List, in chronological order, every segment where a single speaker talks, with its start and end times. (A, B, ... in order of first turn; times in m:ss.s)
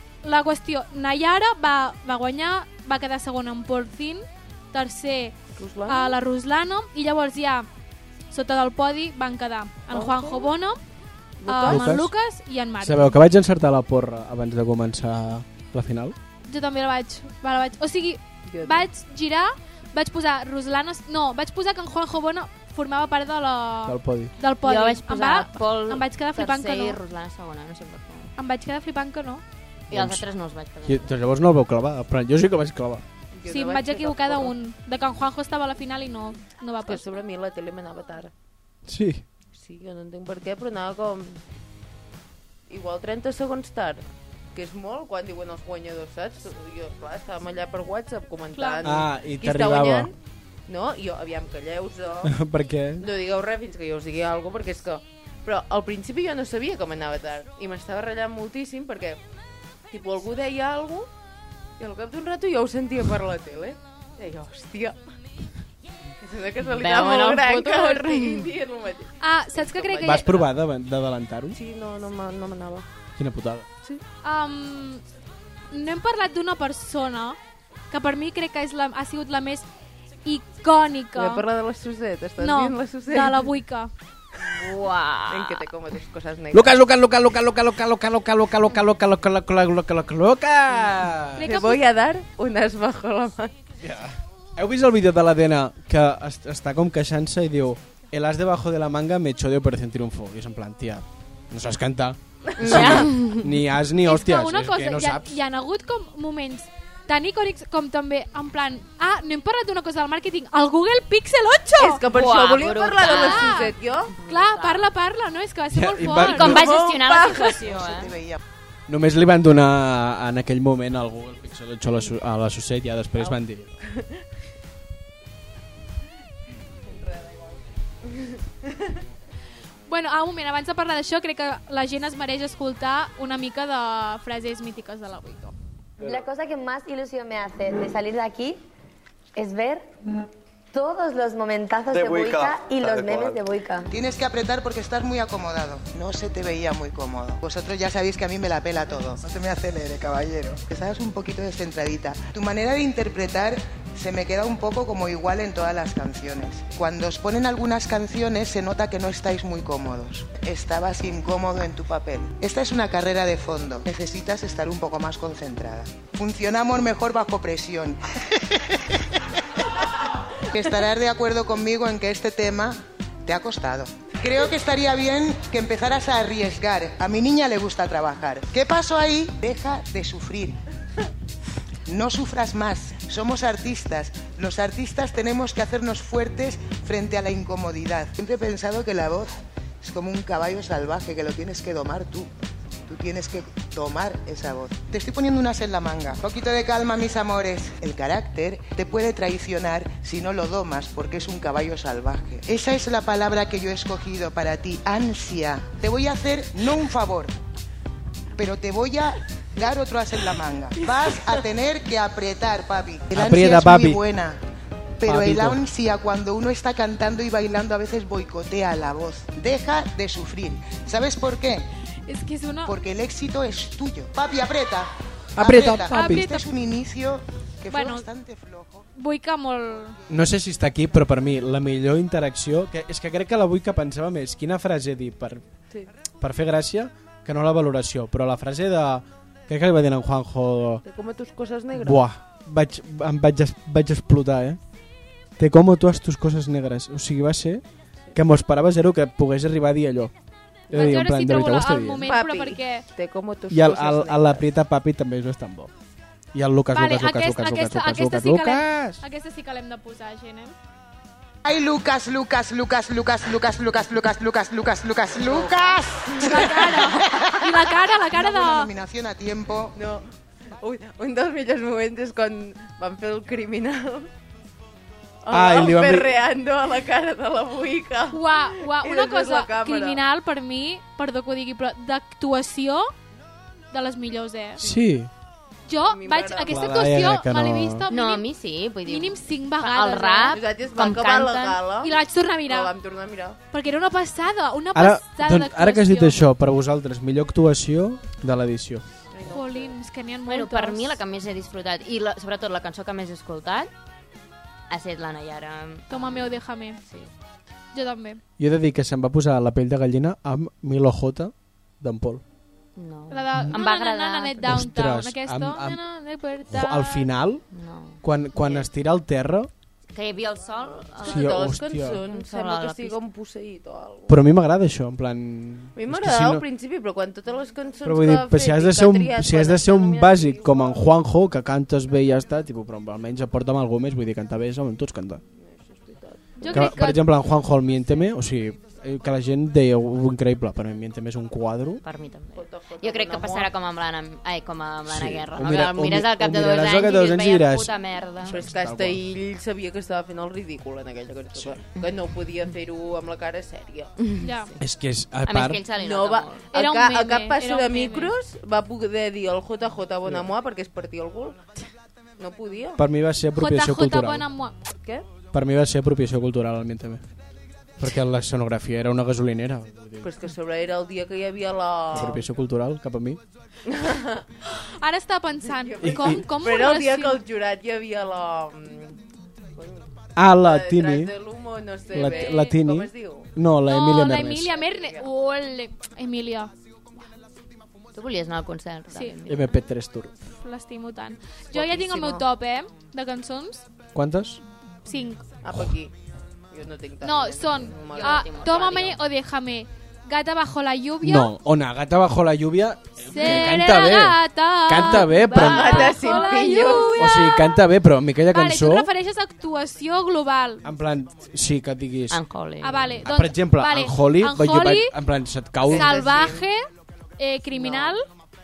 0:00.2-0:07.7 A
0:05.6-0:06.2 B
0:08.3-0:10.8 A
0:09.9-0:10.5 B
0:11.4-0:11.9 B
0:11.4-0:13.2 A
0:11.7-0:12.1 C
0:12.8-0:16.2 C
0:16.5-0:27.0 A
0:18.5-0:18.9 B
0:23.9-0:24.3 C
0:24.6-0:28.3 D
0:28.4-0:29.4 A
0:29.9-0:30.2 C
0:29.9-0:31.1 D
0:30.9-0:33.0 C
0:33.3-0:34.6 B
0:33.5-0:37.1 A
0:36.8-0:38.3 B
0:38.9-0:39.2 C
0:39.5-0:41.4 B
0:42.7-0:50.2 B
0:48.5-0:48.8 A
0:48.8-0:50.1 C
0:50.7-0:52.4 B
0:52.2-0:53.1 C
0:53.0-0:59.2 B
0:59.9-1:01.1 B
1:01.8-1:05.0 B
1:06.2-1:10.5 B
1:06.7-1:08.5 D
1:09.2-1:10.3 A
1:10.0-1:11.6 C
1:11.5-1:12.9 B
1:13.2-1:13.7 C
1:14.2-1:15.0 A
1:15.7-1:17.4 A
1:17.9-1:19.7 A
1:20.2-1:21.5 A
1:21.2-1:23.5 B
1:22.4-1:23.9 A
1:24.5-1:25.7 D
1:25.3-1:26.7 B
1:26.5-1:31.5 C
1:31.4-1:31.8 A
1:31.4-1:33.5 B
1:33.8-1:45.4 C
1:42.6-1:43.5 D
1:42.6-1:43.1 B
1:44.0-1:52.0 A
1:51.8-1:54.2 B
1:52.1-1:54.9 D
1:53.0-1:53.8 A
1:54.3-1:56.6 A
1:55.7-1:56.7 C
1:56.2-1:58.1 D
1:56.4-1:57.7 B
1:57.8-1:58.4 E
1:58.9-2:03.7 C
2:03.2-2:04.1 B
2:06.8-2:08.9 B
2:09.9-2:15.5 A
2:16.0-2:18.6 F
2:19.4-2:19.9 F
2:20.7-2:23.9 F
2:23.9-2:49.0 E
2:50.5-3:00.6 E
3:01.9-3:12.3 E
3:12.9-3:27.3 E
3:28.4-3:34.4 E
3:33.1-3:34.0 C
3:35.0-3:41.7 E
3:35.0-3:35.6 C
3:42.1-3:42.7 A
3:42.7-3:48.8 E
3:45.4-3:46.2 C
3:45.9-3:46.5 A
3:47.7-3:48.1 A
3:49.0-3:50.0 A
3:50.1-3:55.4 C
3:56.2-4:00.8 C
4:00.8-4:02.1 B
4:01.8-4:04.6 C
4:05.4-4:10.1 C
4:10.7-4:12.1 C
4:10.7-4:12.9 A
4:12.0-4:14.4 B
4:13.5-4:15.7 C
4:16.3-4:19.0 C
4:16.7-4:20.6 A
4:21.4-4:29.7 E
4:26.2-4:26.4 B
4:26.2-4:28.7 A
4:29.8-4:30.1 B
4:30.6-4:34.1 B
4:35.2-4:40.0 B
4:35.3-4:36.2 C
4:38.1-4:42.9 A
4:43.7-4:44.6 A
4:44.6-4:45.1 C
4:45.7-4:48.2 A
4:45.8-4:46.7 B
4:46.5-4:47.9 C
4:47.9-4:51.6 D
4:48.9-4:50.4 A
4:50.3-4:53.4 B
4:51.8-4:52.7 A
4:53.5-4:56.2 A
4:54.8-4:58.8 C
4:59.1-4:59.8 B
4:59.3-5:01.0 A
5:00.3-5:03.7 D
5:04.7-5:07.1 D
5:05.9-5:06.8 A
5:07.7-5:08.2 A
5:08.4-5:12.2 C
5:12.8-5:14.6 D
5:13.1-5:17.1 A
5:14.4-5:15.8 C
5:16.5-5:17.4 C
5:17.5-5:18.7 D
5:18.0-5:19.5 C
5:19.9-5:23.0 D
5:21.0-5:24.2 B
5:21.0-5:22.0 C
5:24.1-5:26.4 C
5:25.8-5:30.8 B
5:27.8-5:35.2 C
5:35.4-5:36.7 B
5:36.4-5:37.0 A
5:36.5-5:41.8 C
5:41.8-5:48.4 D
5:42.4-5:43.5 B
5:44.9-5:47.7 C
5:48.2-5:49.0 C
5:48.3-5:54.0 B
5:51.3-5:51.6 C
5:54.0-5:54.5 D
5:54.2-5:54.5 A
5:54.6-5:55.6 C
5:55.2-5:56.5 D
5:55.8-6:01.4 B
5:56.5-5:58.1 A
6:02.2-6:02.8 B
6:02.8-6:04.3 C
6:03.4-6:04.6 A
6:05.3-6:07.0 C
6:07.8-6:10.1 C
6:10.0-6:12.3 B
6:11.9-6:13.2 C
6:13.7-6:14.3 B
6:14.4-6:17.2 A
6:15.4-6:19.0 B
6:15.8-6:16.3 C
6:19.5-6:23.3 B
6:20.2-6:21.1 C
6:21.9-6:24.5 C
6:23.7-6:26.5 A
6:24.4-6:25.1 B
6:27.9-6:29.5 D
6:29.3-6:30.1 C
6:30.4-6:33.7 A
6:31.5-6:32.2 B
6:33.9-6:34.4 C
6:34.8-6:35.2 A
6:35.4-6:35.9 B
6:36.5-6:38.3 B
6:37.0-6:41.3 A
6:37.8-6:39.0 D
6:41.0-6:46.0 C
6:43.1-6:47.6 A
6:44.9-6:47.2 B
6:47.0-6:48.9 C
6:48.3-6:50.6 A
6:50.6-6:52.2 C
6:52.1-6:53.0 D
6:52.6-6:55.0 A
6:53.0-6:56.0 C
6:55.6-6:56.5 B
6:55.7-6:58.0 A
6:57.5-6:58.0 B